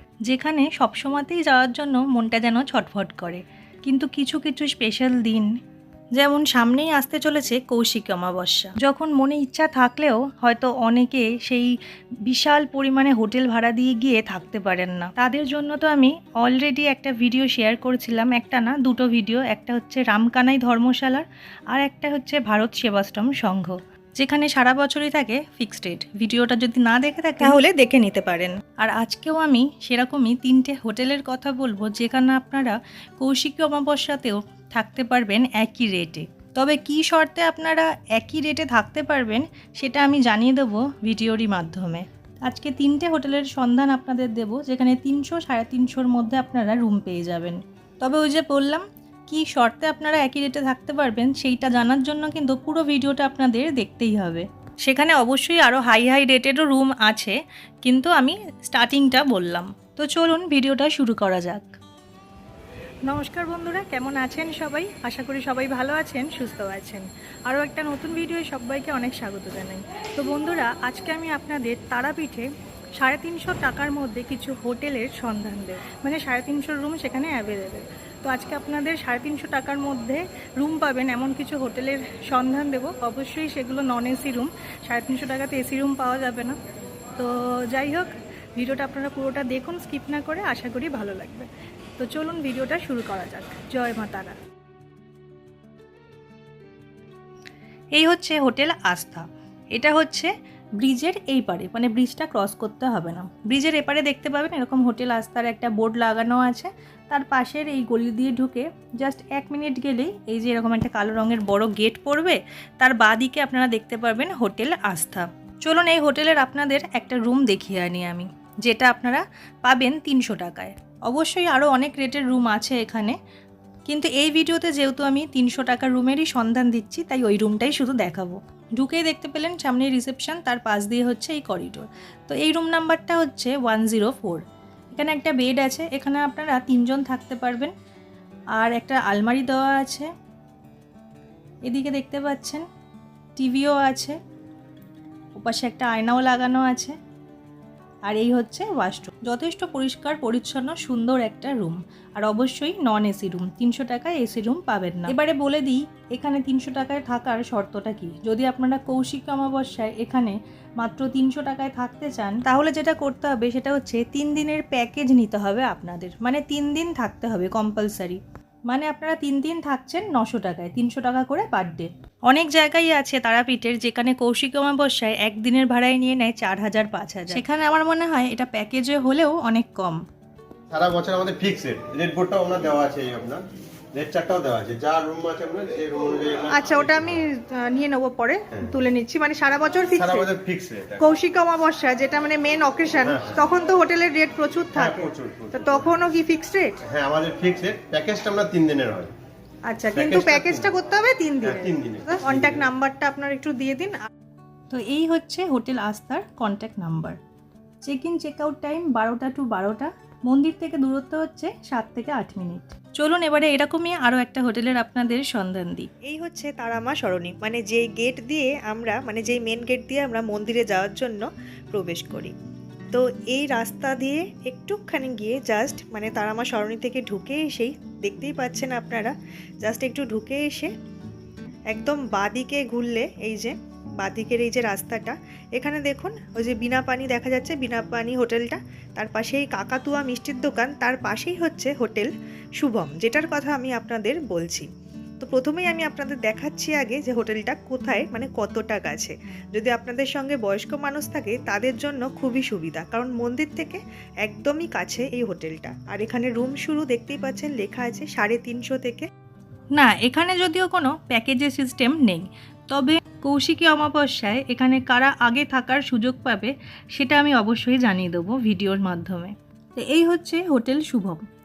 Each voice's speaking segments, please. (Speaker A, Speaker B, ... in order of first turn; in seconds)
Speaker A: 0.3-5.5, 6.2-61.8, 63.1-86.6, 87.2-94.4, 97.9-123.2, 123.9-137.7, 138.6-140.1, 141.7-142.7, 143.4-144.2, 145.4-147.0, 148.1-180.0, 186.5-189.8, 192.2-192.5, 204.7-207.2, 207.8-215.9, 259.7-271.2
Speaker B: 180.7-187.2, 189.8-191.2, 192.9-193.5, 194.7-196.1, 196.8-199.1, 199.9-200.9, 201.4-202.7
Speaker C: 189.7-190.0, 191.1-195.0, 195.6-196.8, 199.8-204.0, 216.1-222.3, 222.9-230.7, 231.7-244.7, 245.2-259.1